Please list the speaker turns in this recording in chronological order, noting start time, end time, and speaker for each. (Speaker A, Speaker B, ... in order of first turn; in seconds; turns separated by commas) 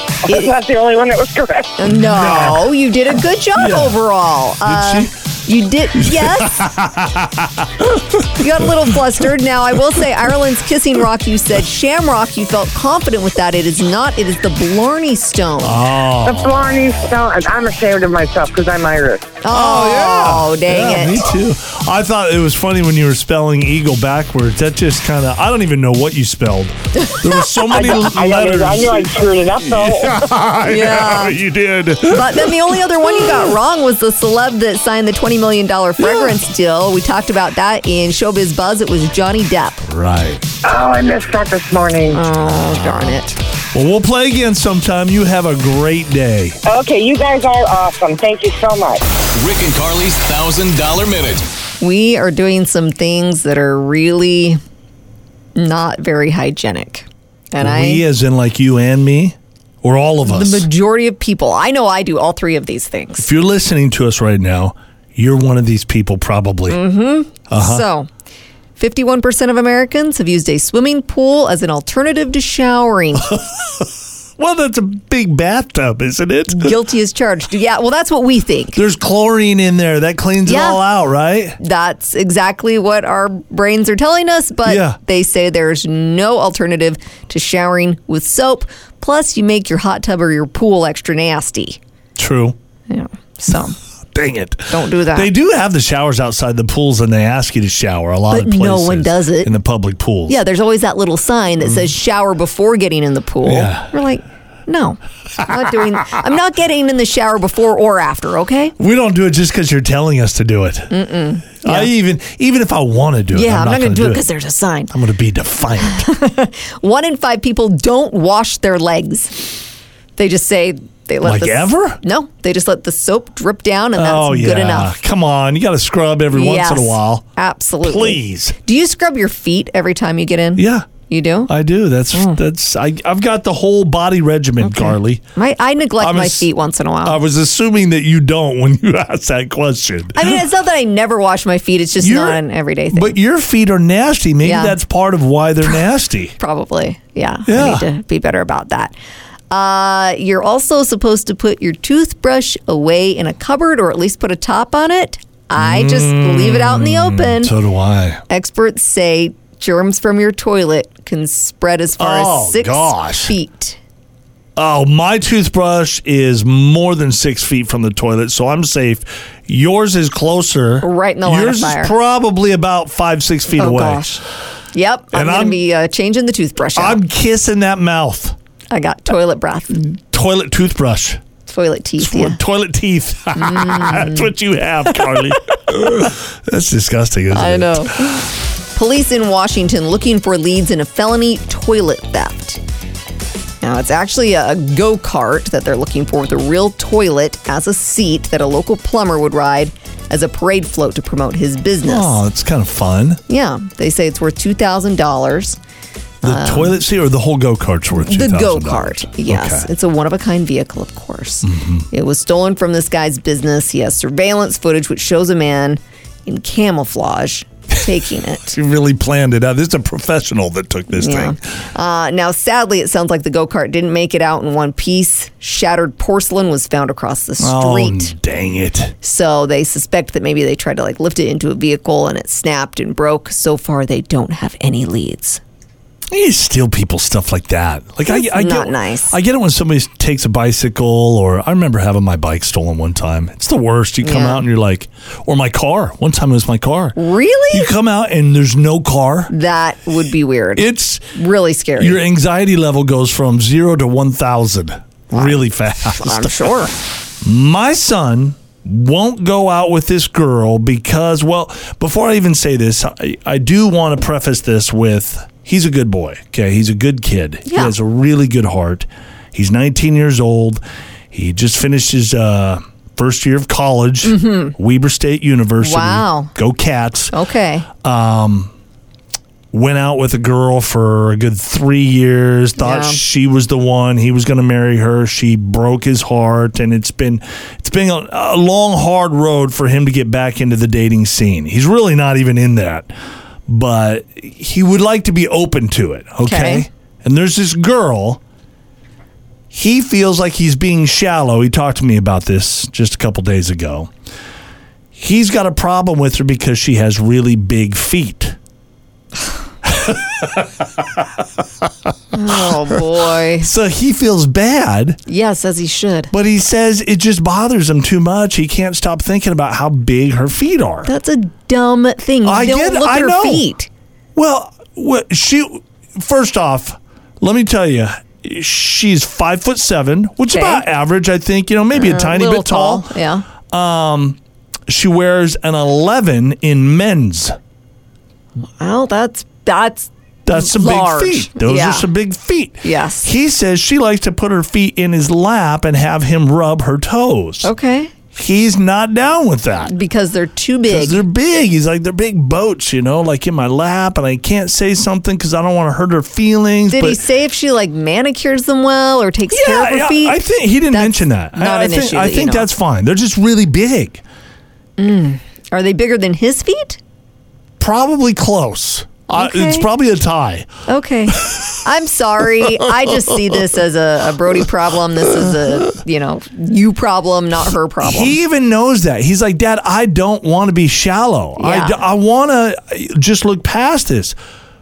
Speaker A: 0.3-1.7, Speaker B: 1.8-6.6, Speaker C: 1.9-2.7, Speaker C: 3.5-4.0, Speaker C: 4.6-5.1, Speaker C: 6.0-8.9, Speaker B: 8.3-15.8, Speaker C: 15.6-16.6, Speaker A: 16.2-19.4, Speaker B: 19.4-21.3, Speaker C: 19.5-33.5, Speaker B: 27.0-27.9, Speaker A: 27.7-30.4, Speaker B: 30.6-31.4, Speaker B: 32.1-39.9, Speaker C: 36.0-36.4, Speaker C: 39.9-40.5, Speaker A: 40.6-42.2, Speaker B: 42.1-43.4, Speaker C: 43.7-46.6, Speaker A: 46.6-49.0, Speaker D: 49.4-51.4, Speaker B: 51.8-54.6, Speaker B: 55.6-58.0, Speaker C: 57.6-60.7, Speaker B: 60.2-63.3, Speaker C: 63.2-66.8, Speaker B: 66.7-68.1, Speaker C: 67.5-67.8, Speaker B: 68.8-73.3, Speaker C: 73.2-76.8, Speaker B: 76.5-78.8, Speaker C: 78.7-81.6, Speaker B: 80.5-80.8, Speaker B: 81.6-91.8, Speaker C: 84.7-85.0, Speaker C: 92.2-92.6, Speaker B: 92.9-93.8, Speaker C: 94.1-100.4, Speaker B: 94.7-95.3, Speaker B: 98.3-99.5, Speaker B: 100.3-108.8, Speaker C: 103.4-103.9, Speaker C: 108.8-110.9, Speaker B: 110.9-111.9, Speaker C: 111.6-114.3, Speaker B: 113.3-114.9, Speaker C: 114.9-116.1, Speaker B: 115.8-119.6, Speaker B: 120.2-124.9, Speaker C: 121.2-122.0, Speaker C: 124.0-127.2, Speaker B: 126.3-131.5, Speaker C: 127.8-128.6, Speaker C: 130.6-130.9, Speaker C: 131.5-135.2, Speaker B: 132.1-132.4, Speaker B: 134.6-137.2, Speaker C: 136.0-136.5, Speaker C: 137.0-140.4, Speaker B: 140.2-143.2, Speaker C: 142.0-146.4, Speaker B: 144.4-144.8, Speaker B: 146.4-148.9, Speaker C: 147.5-147.9, Speaker B: 149.5-157.5, Speaker C: 155.6-158.2, Speaker B: 158.3-163.8, Speaker C: 162.0-163.3, Speaker C: 164.6-174.2, Speaker B: 170.8-171.9, Speaker B: 173.6-174.2, Speaker B: 174.7-177.0, Speaker C: 175.1-175.6, Speaker C: 176.8-178.4, Speaker B: 178.7-179.8, Speaker C: 179.7-181.2, Speaker B: 181.5-182.4, Speaker C: 182.0-188.2, Speaker B: 183.3-184.3, Speaker B: 187.3-192.6, Speaker B: 193.6-202.2, Speaker C: 201.8-203.2, Speaker B: 203.3-205.6, Speaker B: 206.2-206.8, Speaker C: 206.2-209.7, Speaker B: 208.0-218.6, Speaker C: 211.4-211.9, Speaker C: 218.5-221.4, Speaker B: 220.9-228.1, Speaker C: 227.4-228.9, Speaker B: 229.0-235.4, Speaker C: 236.1-247.0, Speaker B: 238.1-239.2, Speaker B: 244.0-244.4, Speaker B: 247.0-247.7, Speaker C: 247.5-249.3, Speaker B: 249.3-252.0, Speaker C: 250.6-251.1, Speaker C: 251.8-256.5, Speaker B: 255.1-255.4, Speaker B: 256.0-256.7, Speaker C: 257.2-277.1, Speaker B: 267.5-267.8, Speaker B: 274.0-274.6, Speaker B: 275.6-276.3, Speaker B: 277.1-277.7, Speaker C: 277.8-278.5, Speaker C: 279.5-292.9, Speaker B: 282.6-283.0, Speaker C: 293.5-298.2, Speaker B: 296.2-296.7, Speaker C: 299.5-303.9, Speaker C: 304.9-308.4, Speaker C: 309.6-310.8, Speaker B: 312.1-313.5, Speaker C: 312.3-312.8, Speaker C: 313.4-315.0, Speaker B: 315.1-316.1, Speaker C: 316.1-320.9, Speaker B: 320.9-323.7, Speaker C: 322.2-323.5, Speaker C: 324.1-337.4, Speaker B: 330.3-330.6, Speaker B: 331.7-333.3, Speaker B: 338.6-341.9, Speaker C: 340.3-347.5, Speaker B: 342.6-343.1, Speaker B: 347.4-347.9, Speaker C: 348.1-349.7, Speaker B: 349.7-351.1, Speaker C: 350.7-357.0, Speaker B: 356.7-362.5, Speaker C: 359.3-364.0, Speaker B: 364.8-366.8, Speaker C: 367.6-370.5, Speaker B: 369.1-369.7, Speaker B: 370.7-378.2, Speaker C: 371.1-371.4, Speaker C: 372.5-372.9, Speaker C: 377.8-384.2, Speaker B: 381.4-381.8